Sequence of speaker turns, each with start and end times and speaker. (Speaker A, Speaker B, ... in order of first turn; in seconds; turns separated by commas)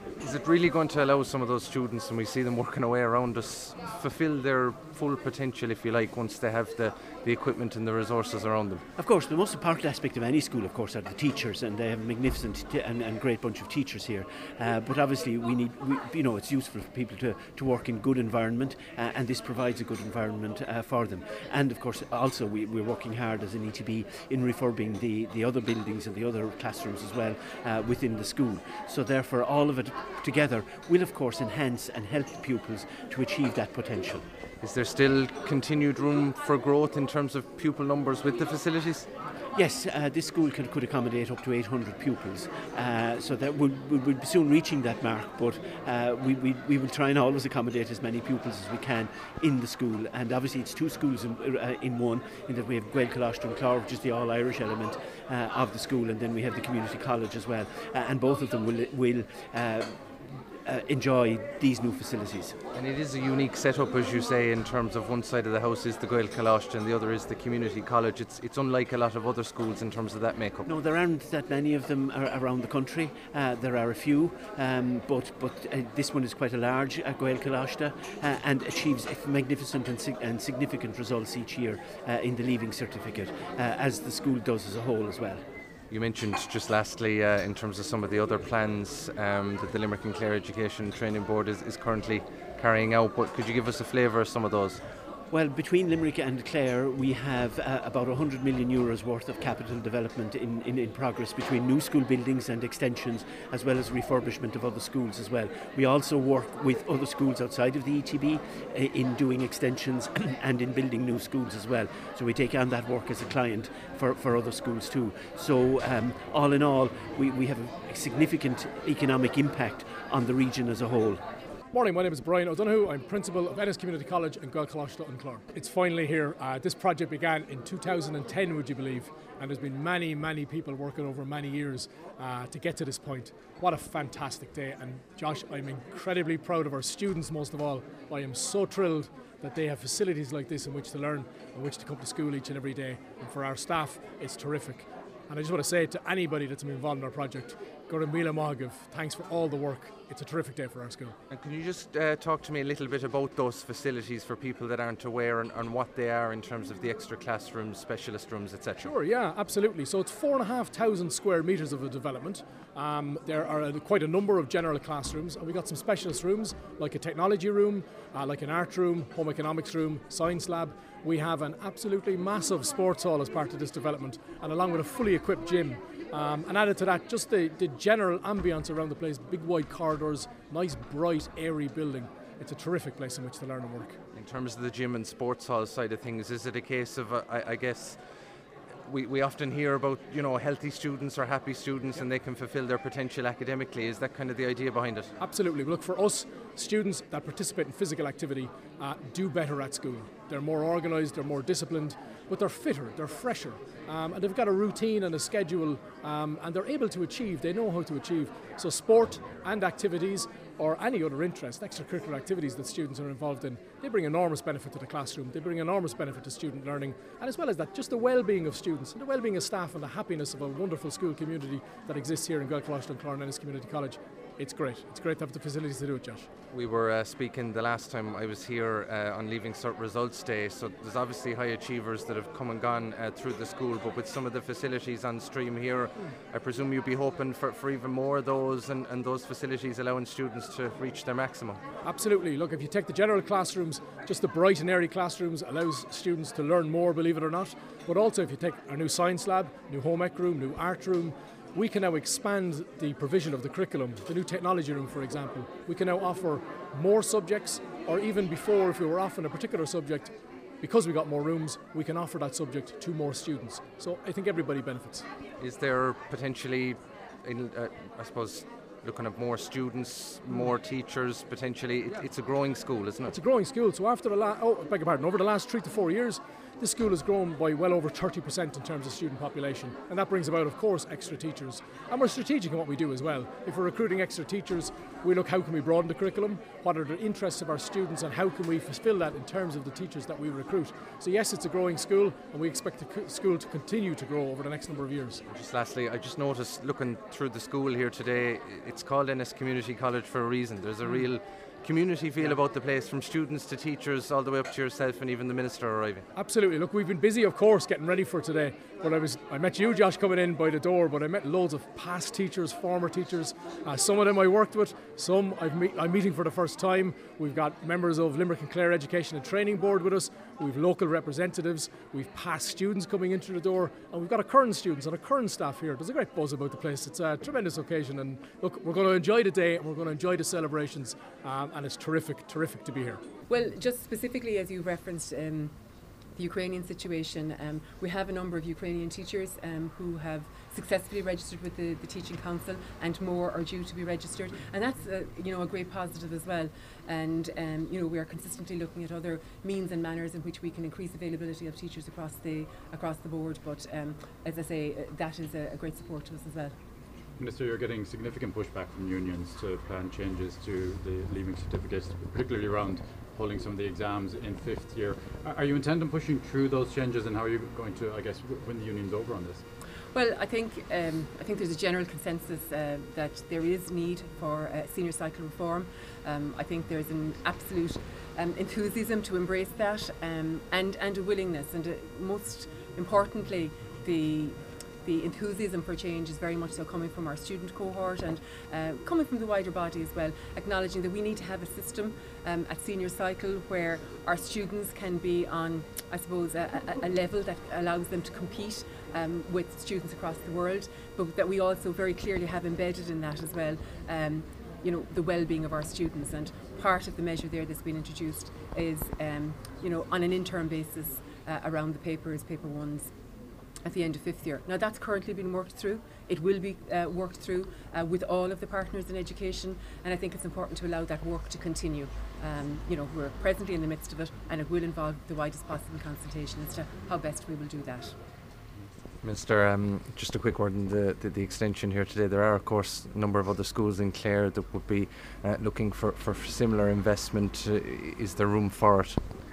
Speaker A: 0.2-8.8, Speaker B: 9.0-34.2, Speaker A: 34.6-39.1, Speaker B: 39.5-60.0, Speaker B: 60.6-62.6, Speaker A: 62.7-70.7, Speaker B: 70.7-85.4, Speaker A: 85.9-94.8, Speaker B: 95.3-121.2, Speaker C: 121.7-151.1, Speaker A: 151.3-158.9, Speaker C: 158.8-184.0, Speaker A: 184.1-188.0, Speaker A: 188.8-195.1, Speaker C: 195.2-226.3, Speaker A: 226.5-241.6, Speaker C: 241.8-265.1, Speaker A: 265.4-273.1, Speaker C: 273.1-295.2, Speaker A: 295.3-306.1, Speaker C: 306.1-333.0, Speaker D: 333.3-335.5, Speaker D: 336.2-356.5, Speaker E: 357.2-369.4, Speaker D: 369.9-412.9, Speaker D: 413.6-427.9, Speaker A: 429.0-439.0